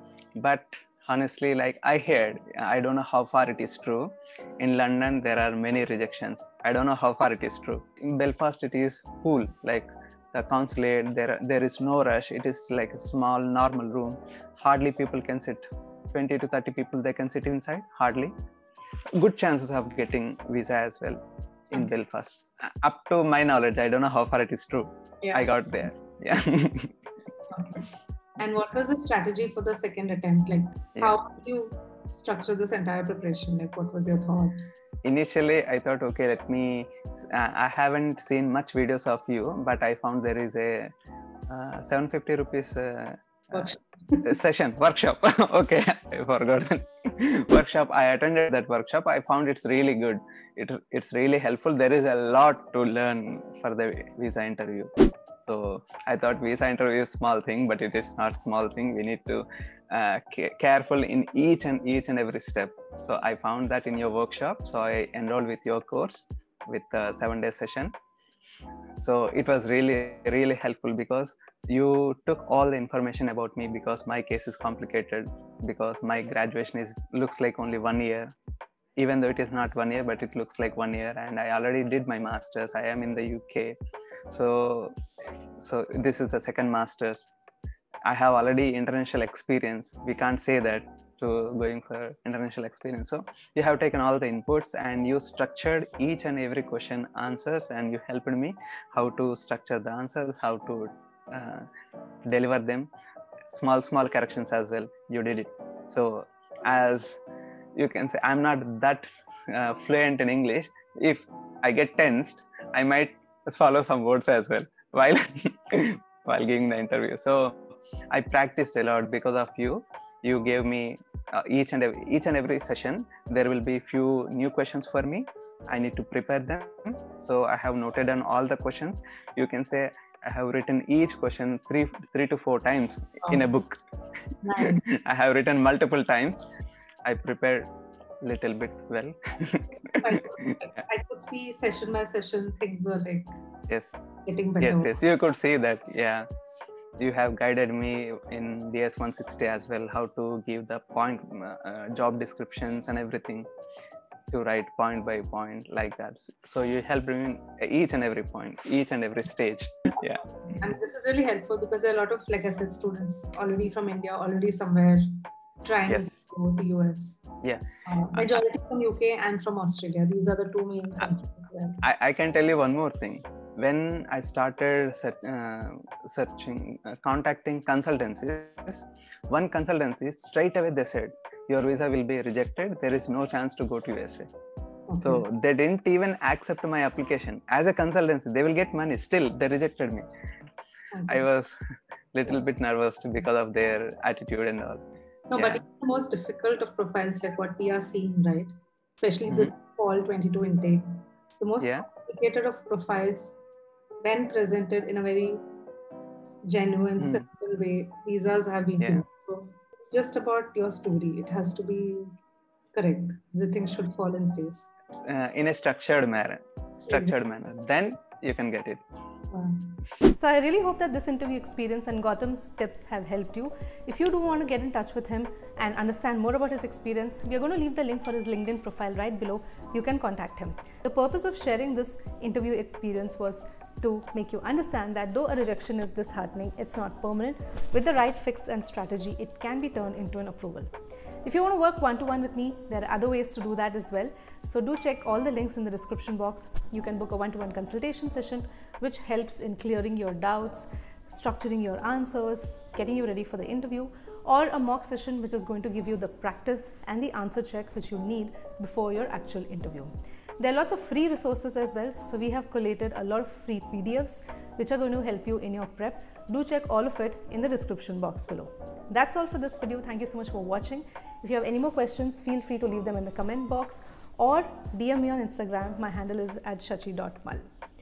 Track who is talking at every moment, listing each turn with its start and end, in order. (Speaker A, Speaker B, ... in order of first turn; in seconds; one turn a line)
Speaker A: 0.4-18.4
Speaker A: 19.2-21.2
Speaker A: 21.7-27.0
Speaker B: 25.2-25.5
Speaker B: 27.5-27.8
Speaker B: 28.4-34.6
Speaker A: 35.0-40.9
Speaker A: 41.5-43.7
Speaker B: 43.5-44.3
Speaker A: 44.2-54.9
Speaker A: 55.4-67.9
Speaker A: 69.0-78.3
Speaker A: 79.0-83.8
Speaker A: 84.3-85.0
Speaker A: 85.6-87.3
Speaker A: 88.1-101.7
Speaker A: 102.2-102.9
Speaker A: 103.5-107.2
Speaker A: 107.8-133.8
Speaker B: 134.4-134.8
Speaker A: 134.6-136.5
Speaker A: 137.1-137.7
Speaker A: 138.2-140.6
Speaker B: 140.0-143.3
Speaker B: 144.3-144.9
Speaker A: 144.6-146.3
Speaker A: 147.0-153.5
Speaker A: 154.3-160.3
Speaker B: 160.6-167.2
Speaker A: 167.4-168.4
Speaker B: 167.9-171.8
Speaker A: 171.8-184.3
Speaker B: 184.9-185.2
Speaker A: 185.0-190.1
Speaker B: 190.9-191.2
Speaker A: 191.1-191.6
Speaker A: 192.1-194.8
Speaker B: 195.3-203.4
Speaker A: 195.3-195.6
Speaker A: 199.3-199.5
Speaker A: 201.6-201.9
Speaker B: 204.0-205.4
Speaker B: 206.3-212.1
Speaker A: 208.8-209.0
Speaker B: 212.7-214.7
Speaker A: 215.0-218.8
Speaker B: 216.9-217.2
Speaker B: 219.3-219.8
Speaker C: 220.2-240.7
Speaker C: 241.2-277.5